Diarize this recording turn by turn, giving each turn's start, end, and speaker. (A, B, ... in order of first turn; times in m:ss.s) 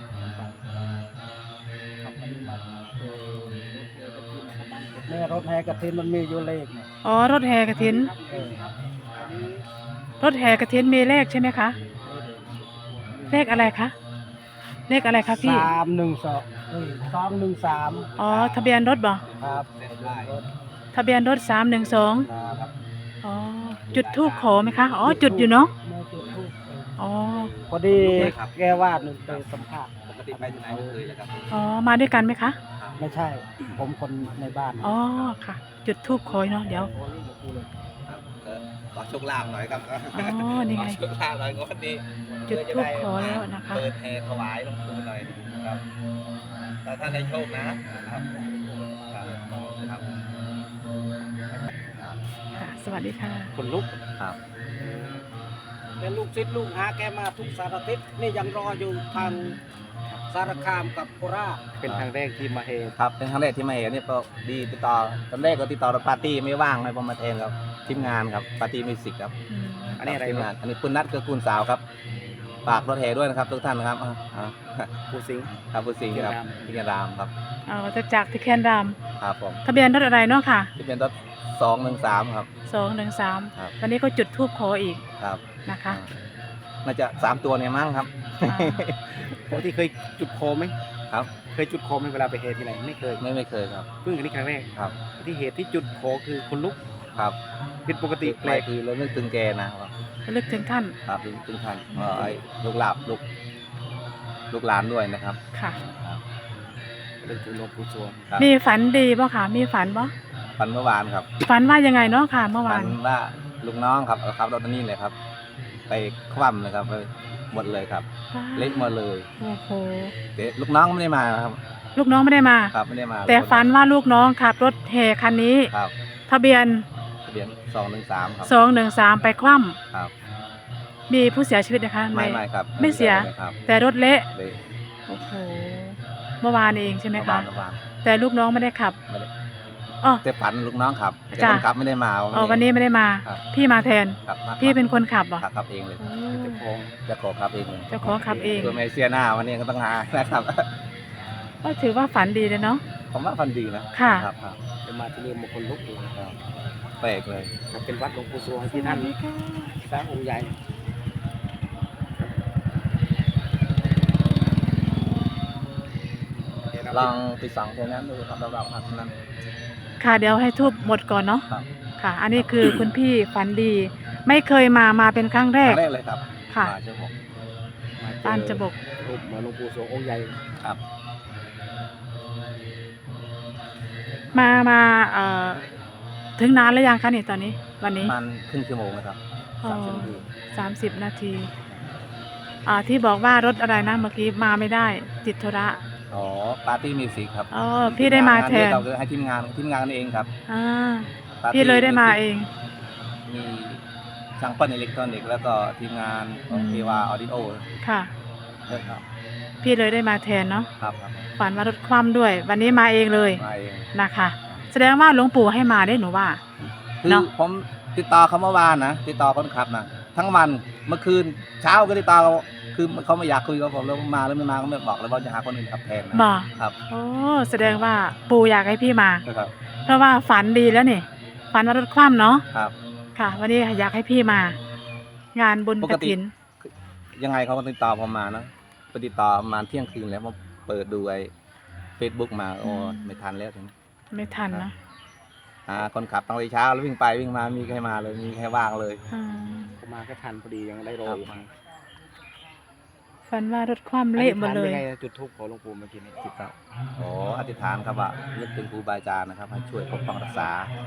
0:02.0-0:02.6 A
0:03.0-0:05.5 B
0:05.0-0:06.9 A
0:07.0-0:08.1 C
0:07.8-0:08.6 B
0:07.9-0:08.6 A
0:09.2-0:09.6 A
0:10.2-0:11.8 C
0:12.0-0:13.7 B
0:13.3-0:13.9 C
0:14.9-0:15.7 C
0:15.0-0:15.7 B
0:15.4-0:18.1 A
0:17.9-0:20.4 D
0:18.2-0:19.2 C
0:19.4-0:20.4 A
0:20.9-0:22.3 C
0:22.2-0:22.7 A
0:23.2-0:25.7 C
0:23.9-0:25.6 D
0:25.0-0:26.8 A
0:27.0-0:27.5 C
0:27.3-0:29.4 D
0:27.7-0:31.0 A
0:30.1-0:31.5 D
0:31.5-0:32.6 C
0:32.8-0:33.0 D
0:33.0-0:34.9 A
0:34.8-0:36.9 C
0:34.8-0:35.3 D
0:36.0-0:37.7 B
0:38.1-0:45.8 D
0:40.1-0:41.0 C
0:42.5-0:43.8 C
0:46.8-0:48.2 D
0:48.0-0:49.7 B
0:49.1-0:50.0 D
0:52.6-0:53.5 C
0:53.5-0:54.0 B
0:56.0-0:59.6 A
1:00.3-1:01.6 A
1:01.8-1:02.9 B
1:03.0-1:09.3 D
1:09.5-1:10.0 C
1:10.0-1:10.5 B
1:10.0-1:11.8 D
1:12.6-1:14.9 D
1:15.1-1:15.5 B
1:15.7-1:17.3 D
1:16.1-1:16.8 B
1:17.7-1:19.0 C
1:19.2-1:19.6 D
1:19.6-1:20.7 C
1:20.8-1:22.5 D
1:22.7-1:25.0 C
1:25.2-1:26.1 D
1:25.6-1:26.0 C
1:26.8-1:29.6 D
1:28.4-1:28.8 C
1:29.5-1:30.7 B
1:31.5-1:33.2 B
1:33.2-1:33.9 D
1:34.0-1:36.8 B
1:37.8-1:38.6 B
1:38.2-1:39.9 D
1:40.3-1:40.9 C
1:41.1-1:43.2 D
1:44.5-1:46.2 D
1:47.2-1:48.2 B
1:48.4-1:50.1 C
1:50.6-1:51.3 D
1:51.4-1:53.0 C
1:52.6-1:55.1 D
1:55.9-1:59.3 D
1:58.3-2:00.1 C
2:00.4-2:01.6 D
2:02.0-2:02.7 C
2:02.7-2:03.7 D
2:03.3-2:05.7 C
2:06.3-2:06.8 C
2:07.2-2:08.5 D
2:08.4-2:09.8 C
2:11.1-2:14.3 C
2:12.1-2:13.6 D
2:15.1-2:17.5 C
2:17.1-2:17.8 D
2:18.0-2:19.0 C
2:20.2-2:22.6 D
2:21.3-2:21.6 C
2:22.3-2:25.4 C
2:24.2-2:24.8 D
2:25.4-2:26.0 D
2:26.0-2:26.6 C
2:26.3-2:26.9 B
2:27.1-2:30.6 D
2:27.9-2:28.8 C
2:28.0-2:28.8 B
2:31.6-2:32.8 C
2:33.1-2:34.6 D
2:33.9-2:34.3 C
2:34.8-2:36.2 B
2:37.0-2:37.5 D
2:37.7-2:39.1 B
2:38.7-2:39.7 C
2:39.8-2:40.5 B
2:46.7-2:47.1 B
2:46.9-2:49.1 D
2:50.0-2:51.4 C
2:52.0-2:55.8 C
2:52.3-2:52.9 D
2:55.6-2:57.1 D
2:58.0-3:00.4 B
2:58.2-2:58.7 C
3:04.3-3:05.6 C
3:06.4-3:08.1 C
3:08.0-3:10.2 D
3:09.6-3:11.5 C
3:12.6-3:15.8 C
3:16.1-3:20.3 D
3:17.5-3:18.9 C
3:20.5-3:22.5 C
3:21.4-3:22.2 D
3:23.3-3:23.8 D
3:24.4-3:27.6 D
3:26.5-3:27.1 C
3:27.8-3:28.1 C
3:28.7-3:29.0 D
3:29.6-3:30.7 C
3:30.8-3:31.3 D
3:31.4-3:33.4 C
3:33.3-3:33.9 D
3:33.9-3:36.4 C
3:37.0-3:46.8 D
3:46.1-3:49.2 C
3:49.3-3:49.5 D
3:49.8-3:52.4 C
3:53.2-3:54.6 C
3:55.3-3:56.3 C
3:55.8-4:01.3 D
4:02.0-4:03.7 D
4:02.6-4:03.2 C
4:04.1-4:04.7 C
4:05.7-4:09.0 D
4:09.1-4:09.7 C
4:09.8-4:11.5 B
4:11.0-4:11.3 D
4:13.3-4:14.8 C
4:14.2-4:16.3 B
4:16.2-4:20.7 D